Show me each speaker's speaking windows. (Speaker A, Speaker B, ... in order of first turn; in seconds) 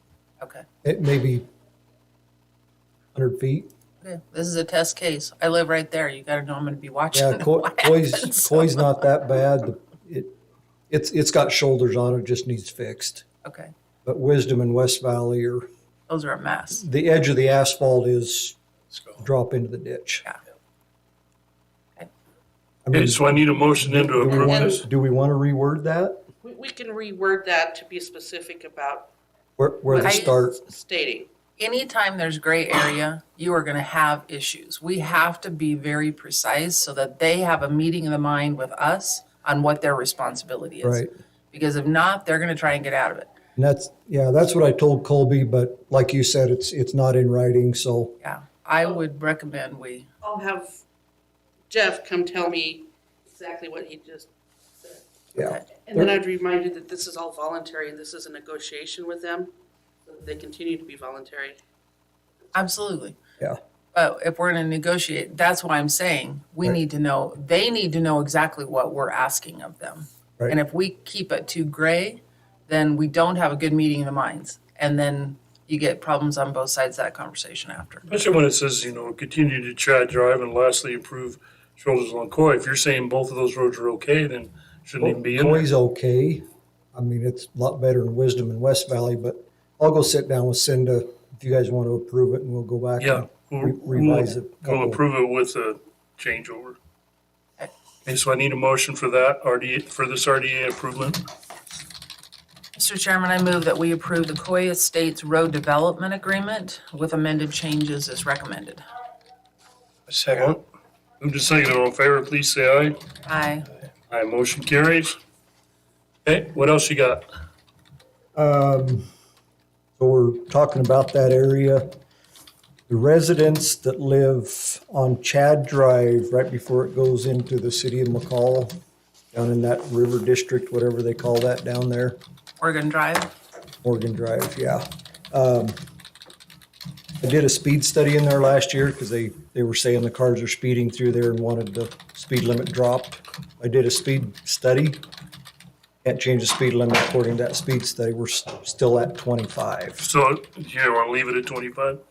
Speaker A: 0.4-0.7, 4.0-9.0, 13.4-13.7, 16.1-16.8, 29.9-30.4, 31.6-43.3, 48.2-50.6, 51.7-52.8, 53.4-54.3, 55.4-59.5, 60.1-61.6, 62.5-63.2, 63.9-78.1, 102.8-108.8, 113.2-113.7, 132.6-133.3
Speaker B: 0.8-1.4, 3.1-3.7, 7.1-10.3, 10.9-13.2, 14.1-15.7, 16.7-18.6, 19.2-20.2, 22.8-26.2, 29.6-30.6, 40.8-41.1, 43.6-48.1, 55.3-56.1, 85.0-95.0, 118.3-119.1, 120.0-121.9, 122.9-128.7, 129.3-132.2, 133.8-135.8, 137.2-145.0, 146.0-150.0
Speaker C: 22.9-24.8, 78.1-85.7, 93.0-96.8, 98.0-101.2, 110.1-110.6, 111.2-112.9, 114.1-115.2, 116.2-117.2, 150.0-152.0
Speaker D: 26.4-29.1, 29.9-31.3, 50.2-50.7, 51.7-52.8, 53.3-54.2, 55.9-59.5, 60.1-61.5